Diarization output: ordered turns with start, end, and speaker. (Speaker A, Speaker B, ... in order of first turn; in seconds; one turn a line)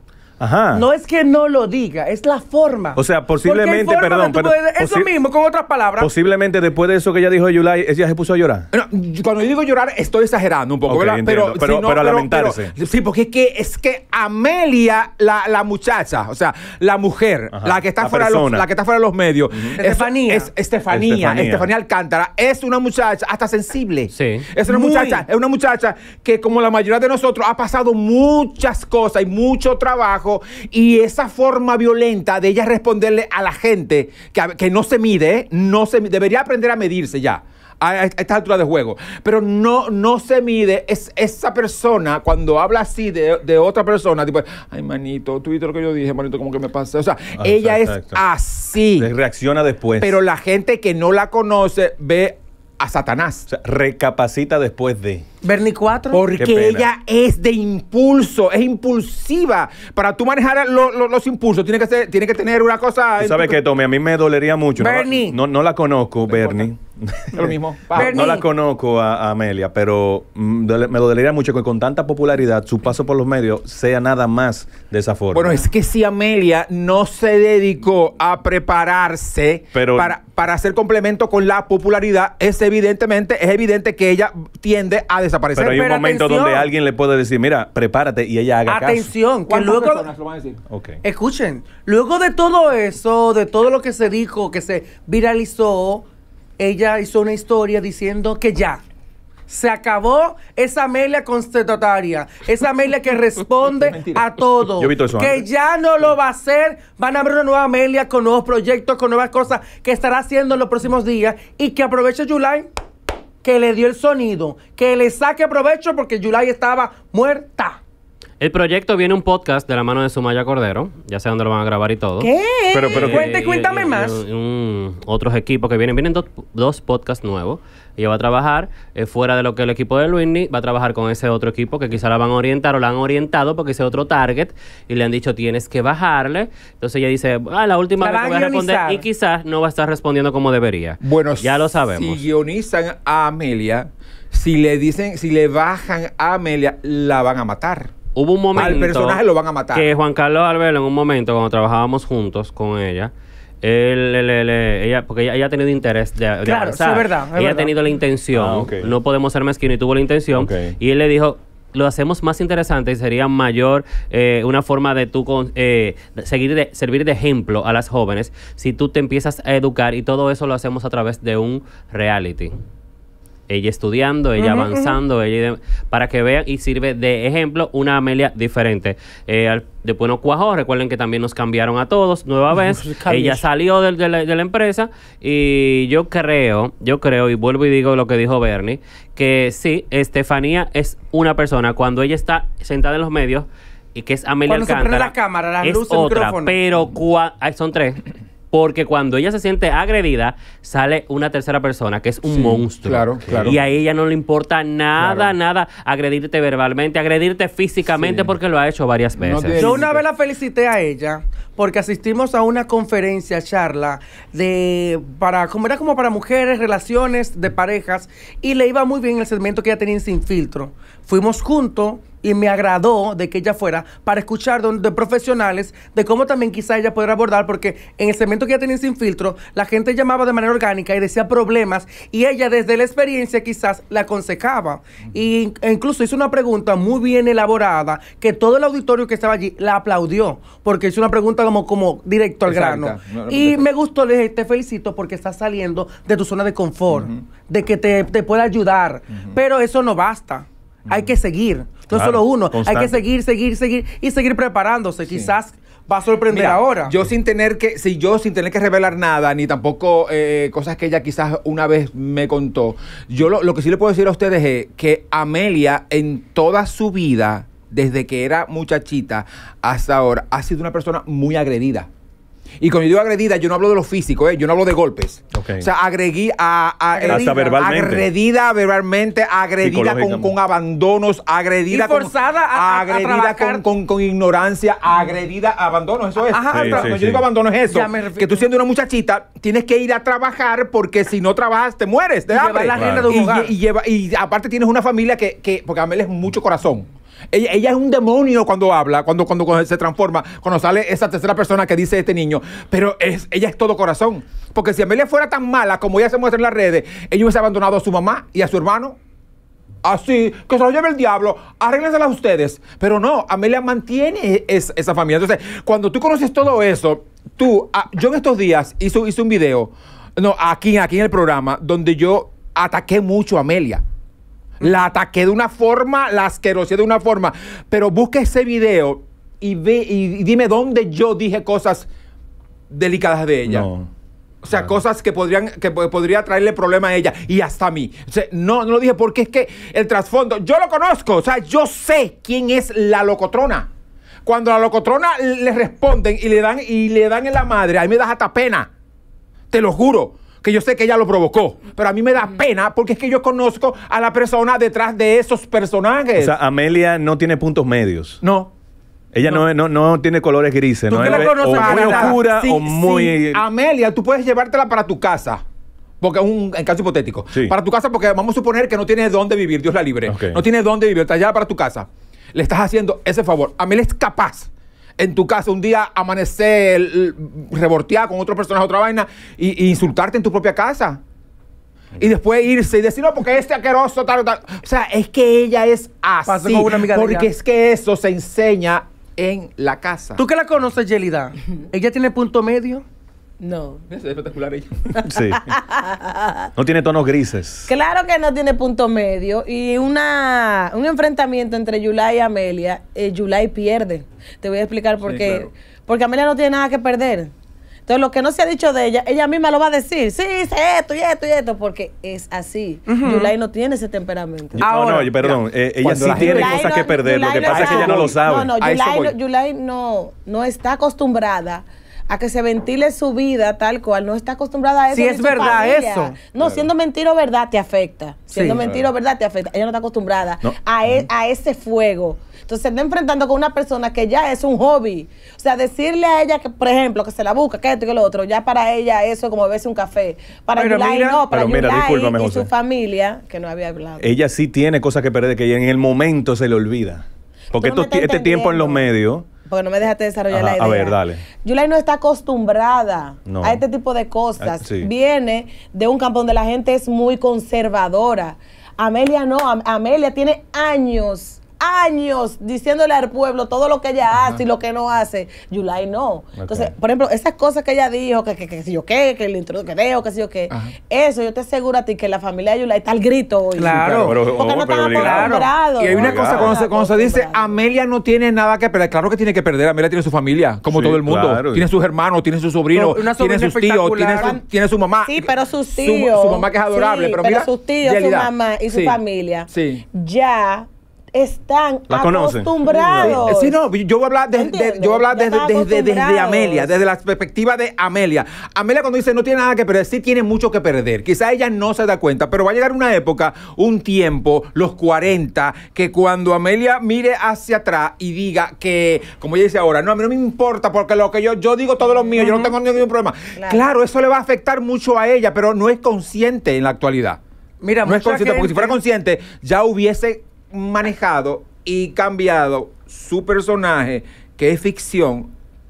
Speaker A: 0.4-0.9
Speaker B: 0.7-6.1
Speaker A: 3.0-5.1
Speaker A: 6.0-8.7
Speaker C: 8.7-49.1
Speaker A: 10.9-12.7
Speaker A: 17.5-18.7
Speaker B: 19.8-20.5
Speaker A: 20.9-21.7
Speaker D: 24.1-24.5
Speaker B: 24.7-25.2
Speaker A: 47.4-48.2
Speaker A: 49.0-50.2
Speaker C: 50.0-53.5
Speaker A: 53.5-55.2
Speaker B: 55.4-56.2
Speaker C: 56.1-63.6
Speaker A: 56.4-56.9
Speaker A: 63.2-75.6
Speaker B: 64.8-65.4
Speaker C: 66.3-66.7
Speaker C: 67.3-68.3
Speaker B: 68.0-68.5
Speaker C: 75.3-85.8
Speaker A: 79.7-80.1
Speaker A: 85.6-89.1
Speaker B: 85.7-86.7
Speaker B: 88.7-90.1
Speaker C: 89.5-90.6
Speaker A: 90.7-91.0
Speaker B: 91.0-96.1
Speaker B: 96.6-98.8
Speaker B: 99.5-112.7
Speaker C: 103.8-104.2
Speaker A: 104.8-105.5
Speaker B: 113.4-117.8
Speaker D: 118.4-122.3
Speaker E: 122.2-123.0
Speaker A: 122.7-123.3
Speaker D: 122.9-142.2
Speaker B: 123.0-124.2
Speaker B: 138.0-139.1
Speaker C: 141.0-147.9
Speaker D: 148.2-149.2
Speaker C: 148.5-149.9
Speaker D: 149.7-153.1
Speaker D: 153.6-172.5
Speaker B: 156.4-157.7
Speaker A: 158.3-158.9
Speaker A: 160.3-160.8
Speaker D: 173.5-209.8
Speaker B: 174.4-175.0
Speaker C: 183.0-183.4
Speaker B: 194.5-196.6
Speaker C: 202.3-203.6
Speaker A: 203.3-203.6
Speaker C: 205.0-205.3
Speaker C: 207.9-208.3
Speaker C: 209.2-210.0
Speaker B: 209.6-256.9
Speaker C: 242.5-243.7
Speaker C: 246.9-247.2
Speaker A: 251.9-253.0
Speaker C: 255.1-255.3
Speaker C: 256.3-271.9
Speaker C: 272.6-309.0
Speaker A: 275.3-275.7
Speaker B: 276.9-277.6
Speaker A: 277.0-278.1
Speaker A: 279.6-280.3
Speaker B: 281.7-283.6
Speaker B: 286.3-288.5
Speaker A: 286.5-287.2
Speaker B: 292.3-293.5
Speaker A: 292.8-293.2
Speaker C: 309.8-323.8
Speaker C: 324.6-331.9
Speaker C: 332.7-333.7
Speaker A: 333.5-333.9
Speaker C: 334.4-343.7
Speaker C: 344.2-348.7
Speaker C: 349.5-356.3
Speaker A: 356.2-358.2
Speaker C: 358.2-358.5
Speaker A: 359.1-363.4
Speaker C: 360.9-365.4
Speaker B: 360.9-362.2
Speaker C: 366.0-381.0
Speaker A: 370.1-370.4
Speaker C: 382.0-390.2
Speaker B: 386.3-387.3
Speaker B: 390.2-392.8
Speaker E: 393.4-393.8
Speaker C: 393.9-394.8
Speaker E: 395.0-396.5
Speaker A: 395.0-395.6
Speaker A: 396.6-397.7
Speaker E: 397.7-407.3
Speaker C: 405.0-405.5
Speaker E: 407.9-414.7
Speaker B: 412.9-413.3
Speaker A: 414.5-418.5
Speaker B: 414.6-415.1
Speaker C: 415.2-416.8
Speaker E: 416.2-444.1
Speaker C: 417.5-419.1
Speaker B: 424.9-426.2
Speaker C: 426.4-426.7
Speaker B: 428.3-428.6
Speaker C: 428.6-428.9
Speaker A: 430.4-431.1
Speaker B: 440.6-441.2
Speaker A: 441.3-442.5
Speaker A: 444.0-449.3
Speaker E: 447.5-448.9
Speaker E: 449.5-477.6
Speaker A: 450.3-451.2
Speaker A: 453.3-453.6
Speaker A: 454.4-454.9
Speaker A: 466.4-466.7
Speaker B: 473.6-474.2
Speaker C: 473.8-474.1
Speaker A: 474.0-475.4
Speaker B: 474.8-475.6
Speaker C: 475.8-489.0
Speaker A: 475.9-476.6
Speaker A: 480.7-481.7
Speaker B: 482.7-484.4
Speaker E: 484.2-484.4
Speaker E: 485.1-493.6
Speaker C: 489.5-489.8
Speaker A: 491.9-493.4
Speaker C: 493.0-517.2
Speaker E: 494.3-496.7
Speaker B: 512.2-512.5
Speaker E: 513.4-513.7
Speaker B: 517.6-518.8
Speaker C: 517.8-525.3